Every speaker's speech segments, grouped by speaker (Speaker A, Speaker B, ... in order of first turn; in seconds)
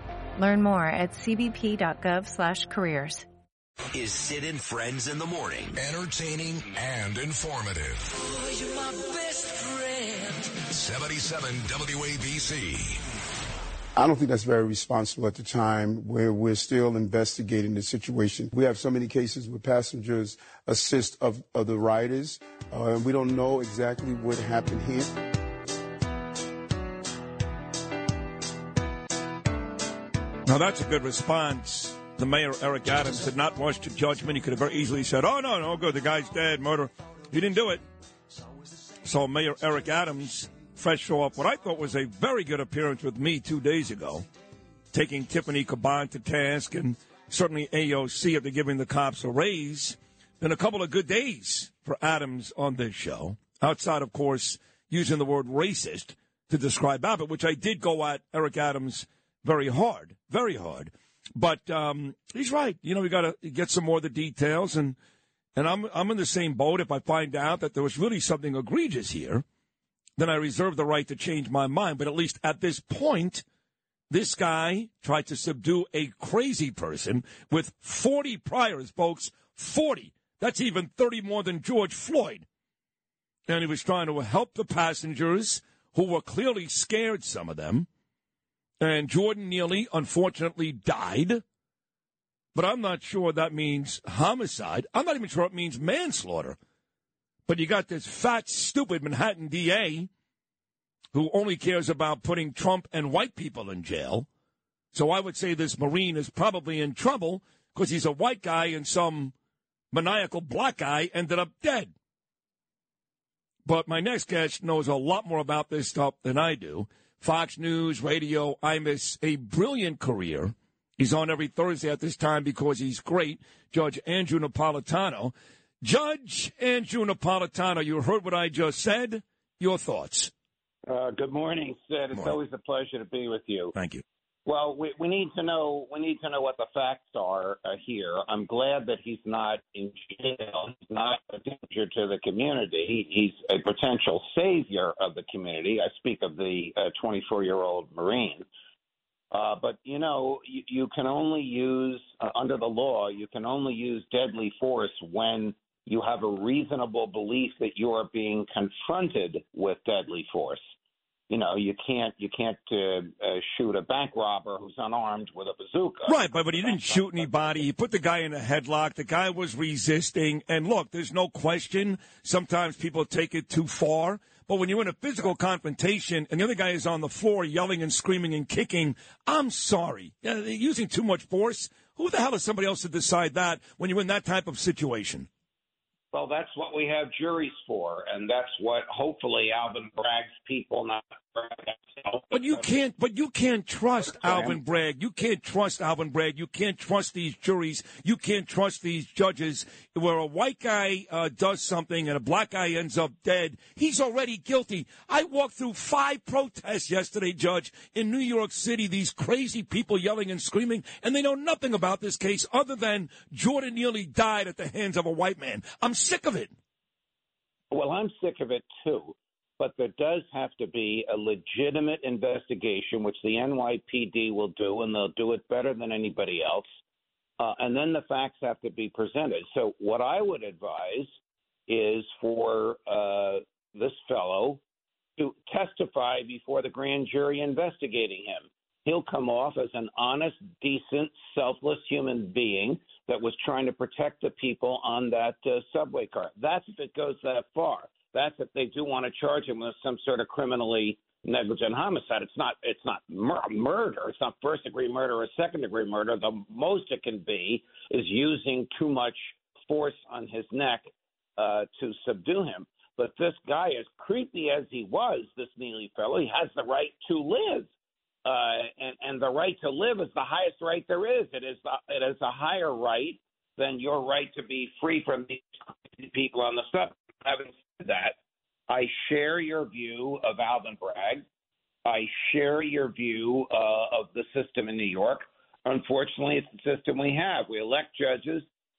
Speaker A: 0.3-3.2
Speaker B: 3.9-5.8, 8.3-10.4
Speaker C: 5.7-8.2, 10.6-13.0
Speaker D: 13.9-25.1
Speaker E: 30.4-37.8, 39.0-44.3, 44.9-65.0, 65.5-69.4, 70.2-73.4, 74.1-82.5, 83.5-87.9, 88.8-91.4, 92.5-96.6, 97.5-100.1, 101.1-104.3, 104.9-109.3, 109.9-111.9, 113.6-130.3, 133.7-134.0, 166.1-185.3, 192.3-216.5
Speaker F: 130.9-133.7, 134.4-148.4, 149.3-160.6, 161.3-167.6, 186.1-192.6, 194.2-194.5, 217.7-226.7, 227.4-231.1, 231.7-234.6, 235.2-267.7, 268.2-278.1, 278.7-281.2, 281.8-288.4